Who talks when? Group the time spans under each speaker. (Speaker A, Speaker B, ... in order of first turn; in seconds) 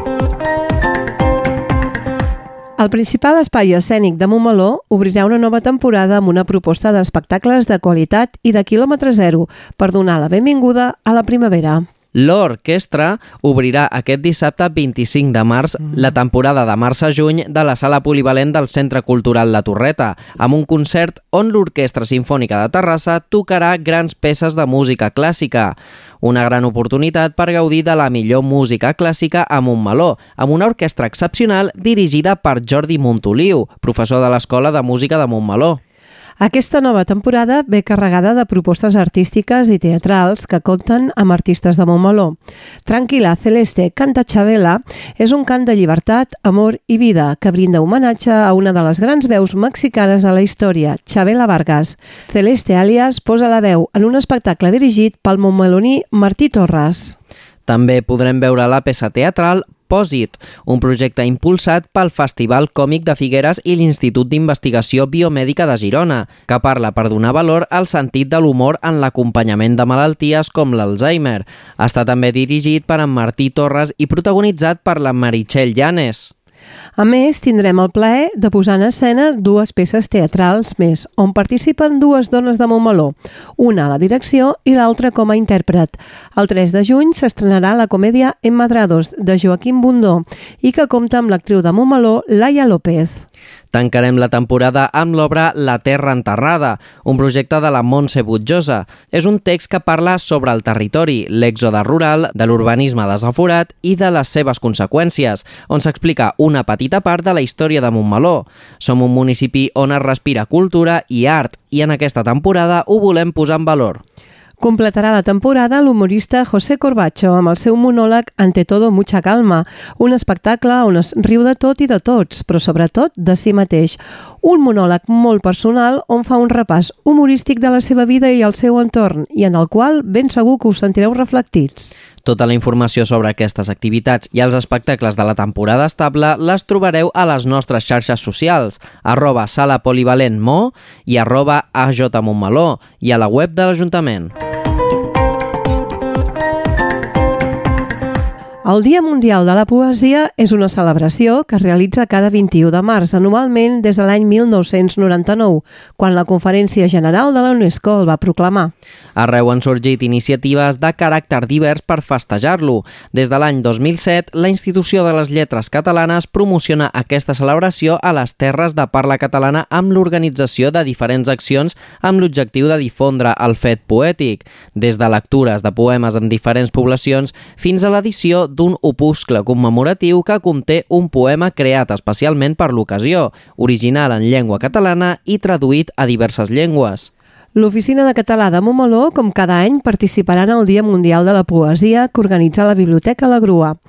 Speaker A: 2.8-11.8, 36.4-57.1, 77.0-93.2, 114.6-131.9, 148.6-158.7, 187.6-193.8
Speaker B: 12.1-35.8, 57.7-76.3, 93.7-114.0, 132.2-144.3, 159.2-187.1